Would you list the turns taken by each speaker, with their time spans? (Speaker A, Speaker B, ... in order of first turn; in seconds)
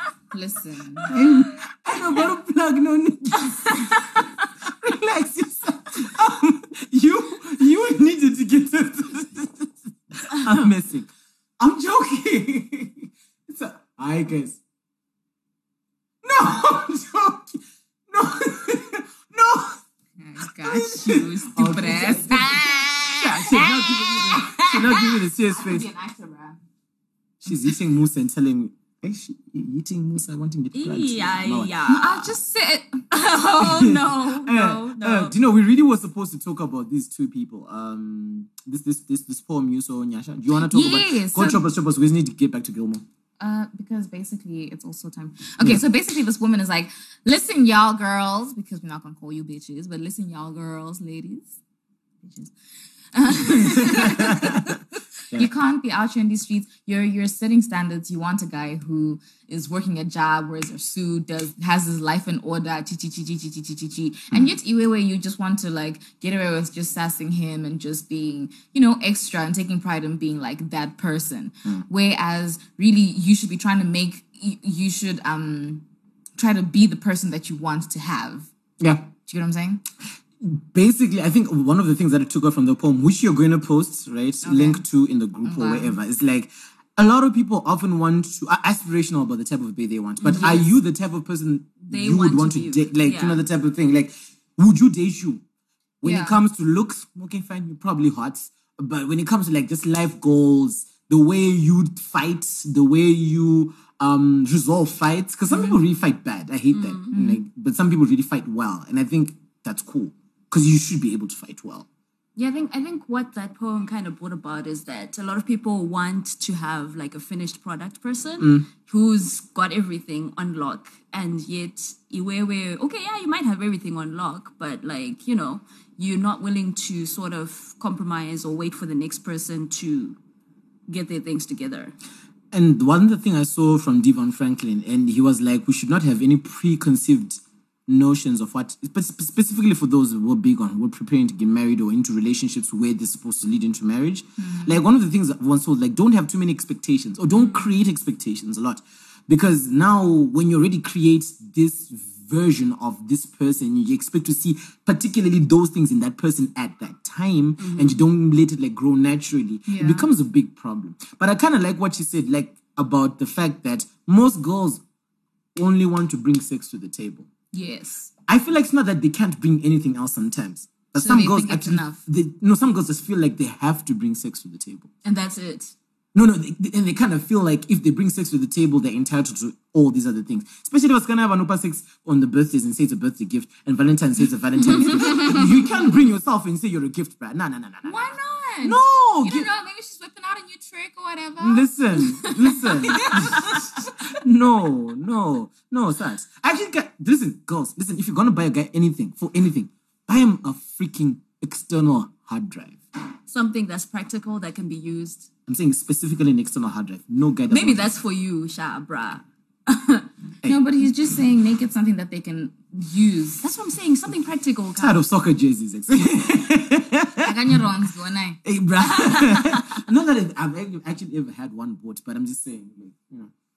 Speaker A: 0.3-1.1, 20.2-26.6, 31.9-33.1, 40.6-41.6, 43.4-51.5, 52.2-52.5, 53.1-54.8, 55.3-75.8, 76.4-78.5, 79.2-79.8, 84.4-84.8, 85.4-86.0, 90.3-90.7, 96.0-96.4, 107.1-107.4, 144.4-144.8, 159.7-160.1, 167.5-168.1, 170.9-172.0, 187.8-193.7, 210.4-213.4, 217.2-218.4
Speaker B: 1.0-1.4, 3.5-4.2, 30.7-32.3, 33.1-35.3, 90.2-90.7, 91.8-93.4, 106.7-107.1, 112.3-130.2, 130.9-131.9, 147.4-147.7, 157.6-158.0, 175.0-175.7, 185.0-185.4, 203.3-205.3, 207.5-210.1, 213.4-215.0, 218.8-219.8
Speaker C: 1.1-3.9, 4.6-14.6, 16.2-19.8, 20.4-25.9, 27.4-31.7, 33.6-43.0, 53.4-54.8, 78.8-79.1, 80.4-95.4, 96.0-111.8, 118.4-118.7, 132.5-164.8, 165.5-167.3, 168.3-174.9, 176.1-189.5, 191.4-202.8, 205.5-207.8, 214.8-217.6, 218.4-223.3